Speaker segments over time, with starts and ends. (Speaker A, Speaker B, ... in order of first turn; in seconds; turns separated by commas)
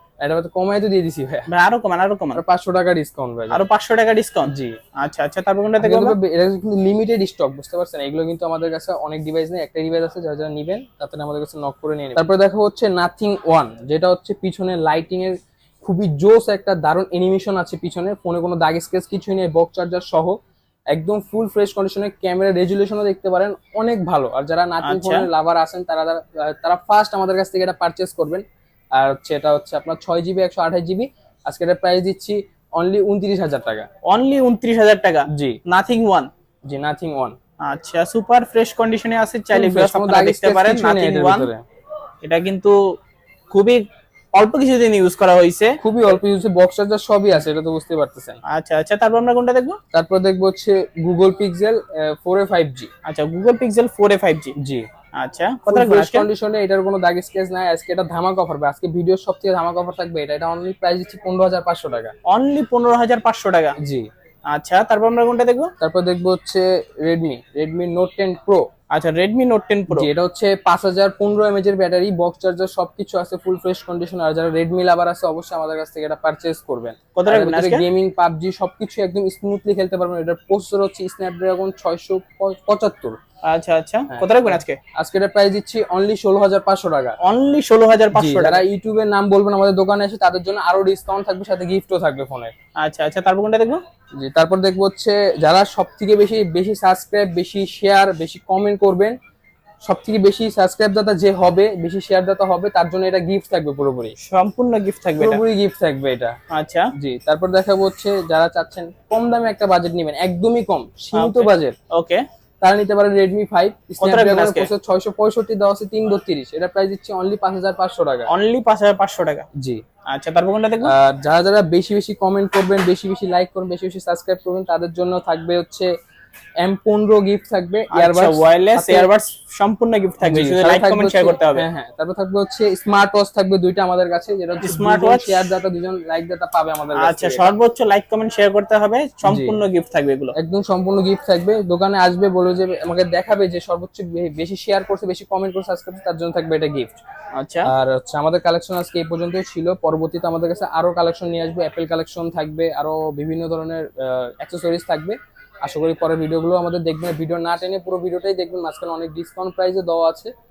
Speaker A: 0.2-1.5, Speaker B: 1.5-2.4, Speaker A: 2.4-3.6, Speaker B: 3.5-6.2, Speaker A: 4.5-4.8, Speaker A: 5.8-20.4, Speaker A: 20.9-28.4, Speaker B: 24.8-25.3, Speaker A: 29.0-33.9, Speaker B: 34.1-36.3, Speaker A: 35.3-35.6, Speaker A: 36.7-37.4, Speaker B: 37.6-41.5, Speaker A: 39.5-41.6, Speaker B: 42.2-42.8, Speaker B: 43.5-43.8, Speaker B: 44.3-45.8, Speaker A: 45.8-48.4, Speaker B: 48.5-49.8, Speaker A: 49.9-52.9, Speaker B: 53.0-54.5, Speaker A: 54.6-54.9, Speaker B: 55.1-56.3, Speaker A: 55.7-62.1, Speaker B: 62.3-63.8, Speaker A: 63.8-64.1, Speaker B: 64.5-65.7, Speaker A: 65.8-68.7, Speaker B: 68.9-70.1, Speaker A: 69.9-83.2, Speaker B: 77.2-77.8, Speaker B: 83.4-84.8, Speaker A: 84.1-87.2, Speaker B: 87.2-88.7, Speaker A: 88.1-92.5, Speaker B: 92.8-93.8, Speaker A: 94.2-99.2, Speaker A: 99.8-104.2, Speaker B: 104.2-105.4, Speaker A: 105.2-106.4, Speaker B: 106.5-106.9, Speaker A: 107.0-111.8, Speaker B: 111.1-112.2, Speaker A: 112.6-118.3, Speaker B: 114.0-114.7, Speaker B: 118.3-119.5, Speaker A: 119.6-119.8, Speaker B: 120.1-120.9, Speaker A: 120.8-125.9, Speaker A: 126.6-129.1, Speaker B: 127.9-131.7, Speaker A: 130.2-137.5, Speaker B: 134.6-135.5, Speaker B: 137.0-140.3, Speaker A: 139.2-139.6, Speaker A: 140.4-147.0, Speaker B: 147.3-147.7, Speaker A: 147.7-160.3